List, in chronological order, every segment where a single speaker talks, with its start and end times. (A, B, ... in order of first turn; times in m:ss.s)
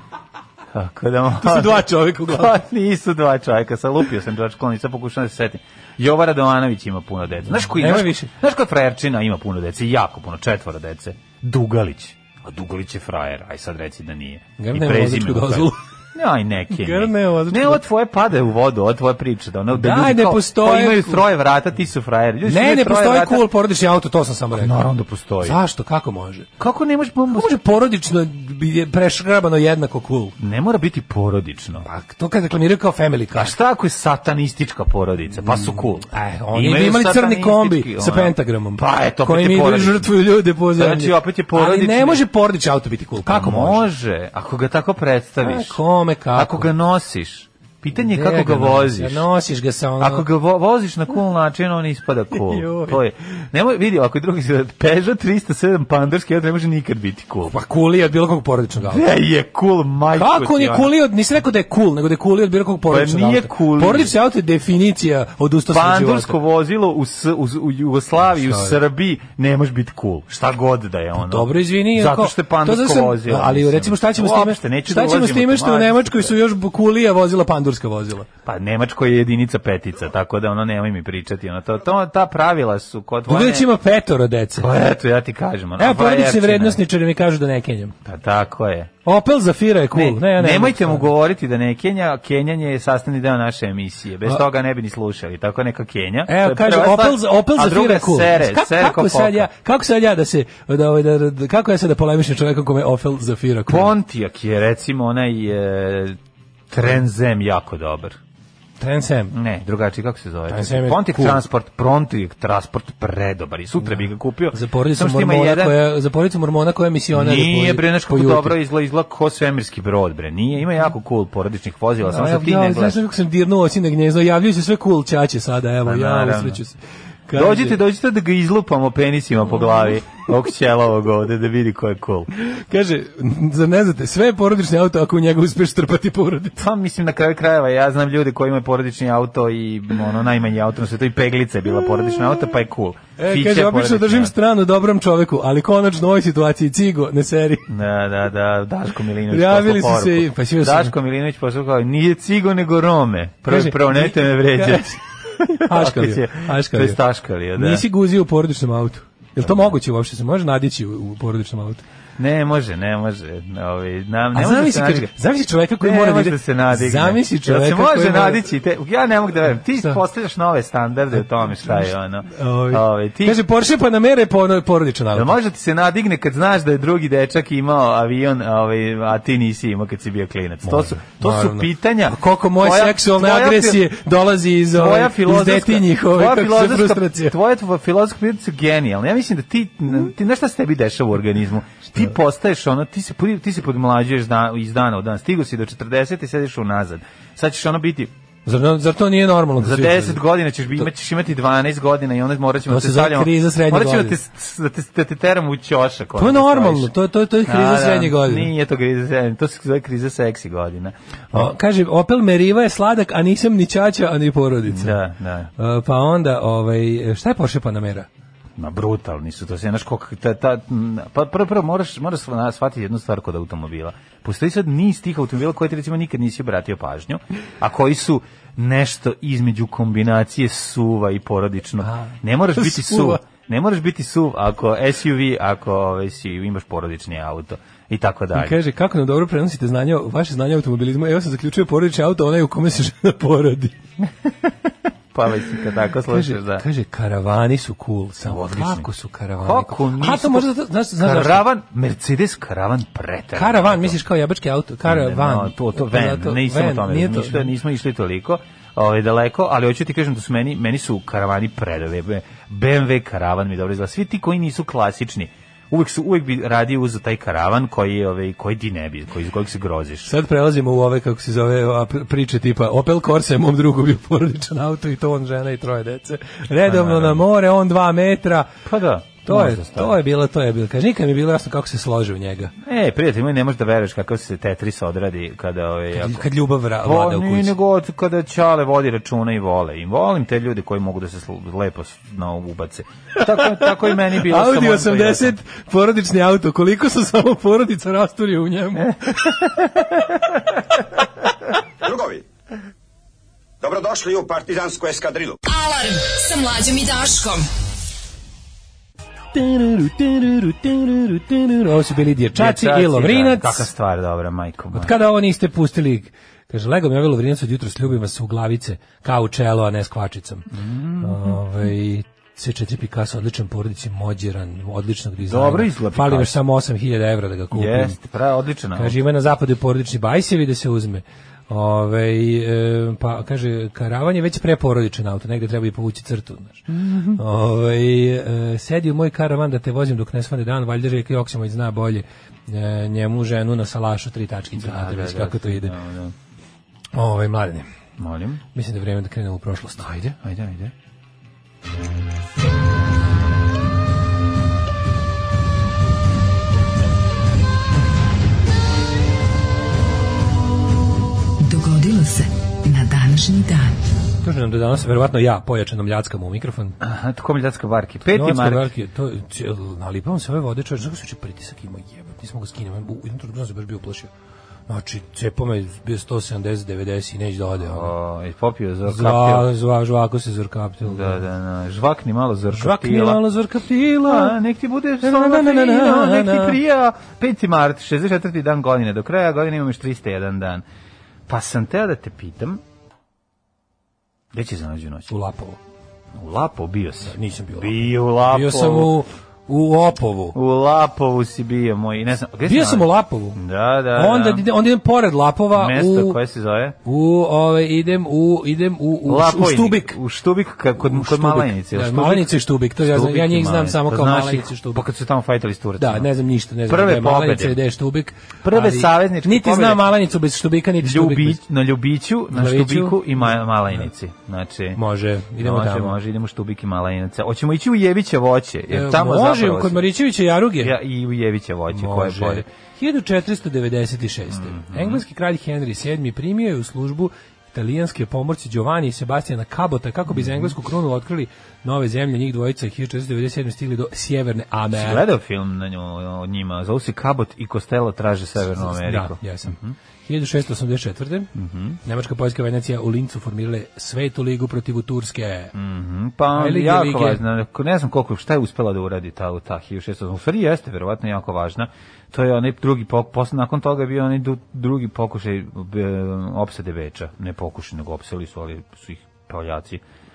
0:00.7-0:23.5 A
0:01.4-0:02.6 B
0:07.5-0:08.3 B
0:14.6-0:15.8 B
0:16.7-0:17.8 B
0:19.7-0:21.2 B
0:22.4-0:24.8 B
0:24.5-0:25.6 A
0:25.4-0:26.5 B
0:26.6-0:27.5 A
0:27.3-0:30.4 B
0:30.4-0:31.8 A
0:31.8-0:33.5 B
0:33.3-0:40.1 A
0:35.4-0:43.9 B
0:40.7-0:42.2 A
0:43.2-0:45.8 A
0:45.4-0:46.7 B
0:46.3-0:49.2 A
0:48.0-0:50.2 B
0:50.0-0:57.5 A
0:52.3-0:53.0 B
0:57.4-0:59.0 B
0:58.8-1:00.9 A
1:00.2-1:06.4 B
1:02.9-1:04.1 A
1:05.7-1:16.4 A
1:08.4-1:08.8 B
1:11.2-1:18.3 B
1:18.4-1:23.7 A
1:23.3-1:24.7 B
1:24.6-1:26.8 A
1:25.8-1:27.9 B
1:28.0-1:28.9 A
1:29.0-1:31.1 B
1:29.9-1:39.5 A
1:36.3-1:43.9 B
1:43.7-1:46.2 A
1:46.7-1:48.2 A
1:48.8-1:49.3 B
1:49.3-1:55.9 A
1:50.5-1:51.4 B
1:53.8-1:58.6 B
1:57.1-2:03.0 A
2:02.0-2:07.8 B
2:05.8-2:06.6 A
2:07.3-2:12.3 A
2:12.4-2:16.6 B
2:16.6-2:24.3 A
2:23.2-2:27.6 B
2:27.7-2:37.8 A
2:29.3-2:30.9 B
2:33.5-2:37.0 B
2:37.5-2:41.8 B
2:39.4-2:39.7 A
2:42.2-2:45.1 A
2:44.3-2:48.5 B
2:45.8-2:53.4 A
2:51.4-2:55.3 B
2:55.1-3:03.8 A
3:00.6-3:07.3 B
3:04.7-3:18.1 A
3:18.4-3:20.2 B
3:19.6-3:26.9 A
3:22.7-3:24.2 B
3:26.2-3:28.5 B
3:27.4-3:31.5 A
3:31.3-3:35.0 B
3:34.7-3:35.5 A
3:35.6-3:38.1 B
3:38.6-3:58.6 A
3:51.8-3:53.2 B
3:58.3-4:03.7 B
4:05.1-4:06.6 A
4:06.1-4:11.4 B
4:08.2-4:14.0 A
4:13.3-4:17.5 B
4:14.8-4:30.1 A
4:30.0-4:38.5 B
4:36.6-4:37.2 A
4:38.6-4:40.0 A
4:39.2-4:42.5 B
4:42.6-4:55.4 A
4:45.9-4:47.6 B
4:53.2-4:59.5 B
4:58.8-5:00.1 A
5:01.8-5:02.2 C
5:03.6-5:05.4 C
5:05.4-5:07.5 D
5:09.3-5:13.7 B
5:12.3-5:14.9 A
5:14.7-5:20.4 B
5:20.5-5:21.4 A
5:21.0-5:28.0 B
5:25.2-5:26.3 A
5:27.5-5:29.0 A
5:28.8-5:45.7 B
5:36.7-5:37.2 A
5:44.6-5:46.1 A
5:46.9-5:47.7 B
5:48.0-5:48.4 A
5:48.5-5:50.1 B
5:49.8-5:50.7 A
6:01.4-6:03.8 D
6:04.2-6:06.8 B
6:06.8-6:08.7 A
6:08.1-6:14.1 B
6:14.7-6:17.9 B
6:17.6-6:19.5 A
6:18.8-6:21.2 B
6:20.8-6:23.2 A
6:22.5-6:24.4 B
6:24.0-6:30.6 A
6:25.0-6:26.6 B
6:31.3-6:32.6 A
6:34.3-6:35.1 A
6:35.1-6:35.6 B
6:36.1-6:38.9 A
6:37.0-6:40.4 B
6:40.3-6:44.4 A
6:42.5-6:43.4 B
6:43.9-6:46.2 B
6:45.5-6:46.8 A
6:46.8-6:50.0 B
6:49.0-6:56.1 A
6:50.8-6:54.8 B
6:55.8-7:01.4 B
6:56.7-6:57.6 A
6:58.4-6:59.8 A
7:00.8-7:04.8 A
7:02.3-7:03.4 B
7:04.8-7:06.0 B
7:05.4-7:09.9 A
7:08.7-7:10.7 B
7:10.6-7:12.4 A
7:11.7-7:25.0 B
7:14.3-7:15.0 A
7:20.1-7:20.5 A
7:24.7-7:29.8 A
7:28.5-7:31.3 B
7:31.3-7:31.8 A
7:31.8-7:35.5 B
7:35.5-7:49.8 A
7:36.3-7:37.2 B